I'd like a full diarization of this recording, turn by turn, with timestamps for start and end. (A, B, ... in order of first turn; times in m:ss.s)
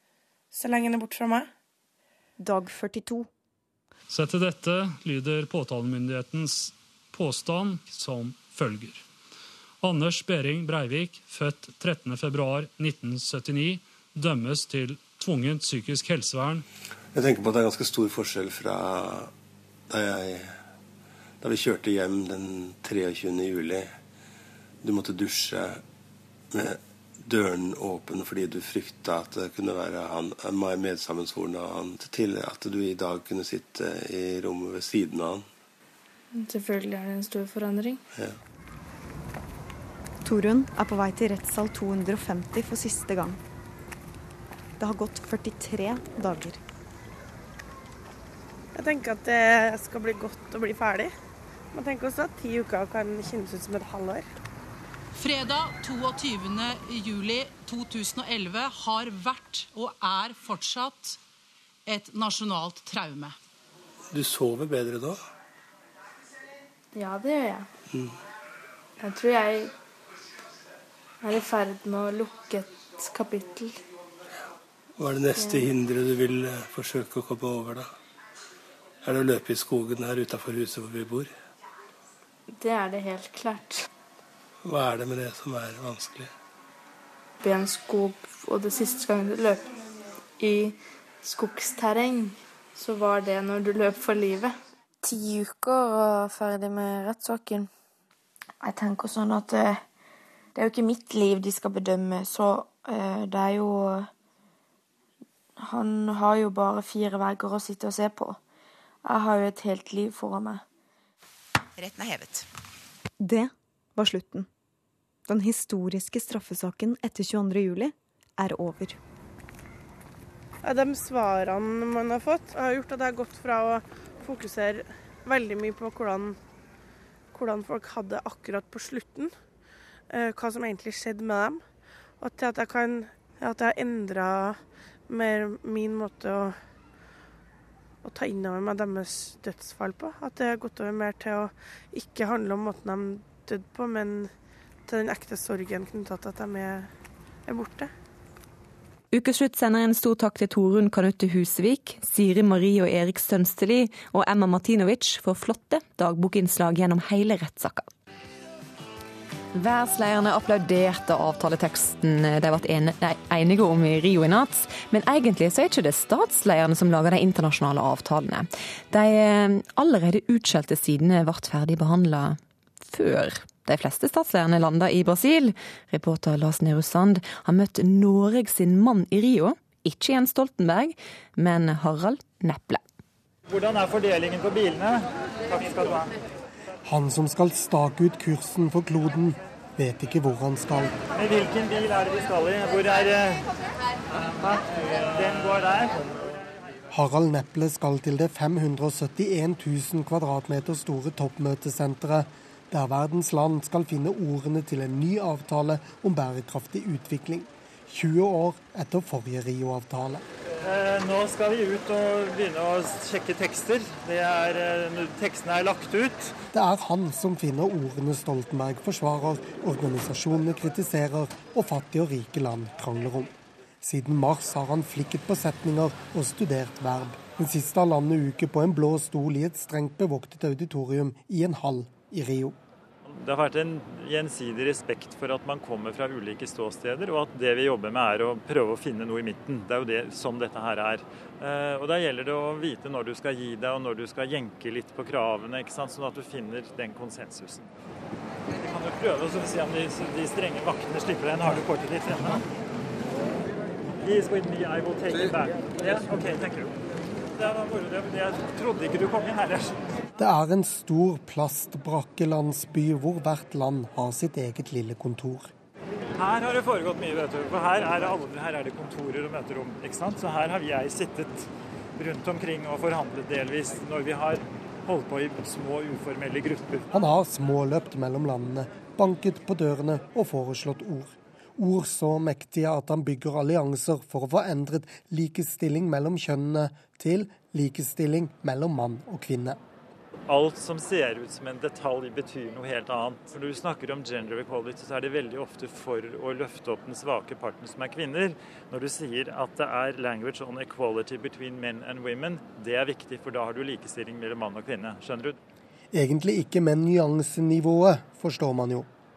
0:00.5-0:01.5 A
0:02.4-0:03.3 B
0:04.1-0:09.0 C
0:09.8-0:16.6 C
0:17.1-0:19.3 D
0:19.9-0:20.6 D
0:21.4-0:23.9 D
0:24.8-0:25.8 D
0:26.5-0:35.5 D
0:36.3-0:38.0 E
0:40.2-0:43.4 B
0:44.8-0:46.6 B
0:48.7-0:51.1 A
0:51.7-0:54.2 A
0:55.1-1:01.2 F
1:01.8-1:03.4 F
1:04.1-1:05.2 D
1:06.9-1:07.6 E
1:09.0-1:09.7 E
1:11.2-1:13.7 E
1:15.0-1:17.9 D
1:15.4-1:15.7 E
1:19.0-1:21.3 D
1:22.6-1:23.8 E
1:24.6-1:26.3 D
1:27.4-1:29.7 E
1:30.4-1:34.5 E
1:35.0-1:37.7 G
1:38.6-1:39.8 G
1:40.5-1:44.1 G
1:45.6-1:48.4 G
1:49.0-1:50.6 G
1:53.2-1:54.5 B
1:55.3-1:59.0 B
2:00.6-2:06.4 A
2:07.3-2:09.3 A
2:10.1-2:11.6 A
2:12.2-2:16.6 A
2:18.0-2:24.3 A
2:24.9-2:26.9 A
2:27.5-2:27.9 A
2:29.1-2:37.9 H
2:39.5-3:02.8 H
3:03.5-3:06.1 I
3:06.8-3:11.0 J
3:11.1-3:13.4 I
3:14.4-3:16.2 I
3:16.9-3:30.2 J
3:30.6-3:36.3 I
3:36.5-3:43.3 J
3:43.8-3:52.5 J
3:53.1-4:07.7 I
4:08.5-4:12.4 I
4:13.9-4:16.8 I
4:17.3-4:19.8 I
4:20.2-4:25.5 J
4:26.1-4:36.9 I
4:36.9-4:49.6 J
4:50.3-5:05.4 I
5:05.9-5:08.9 J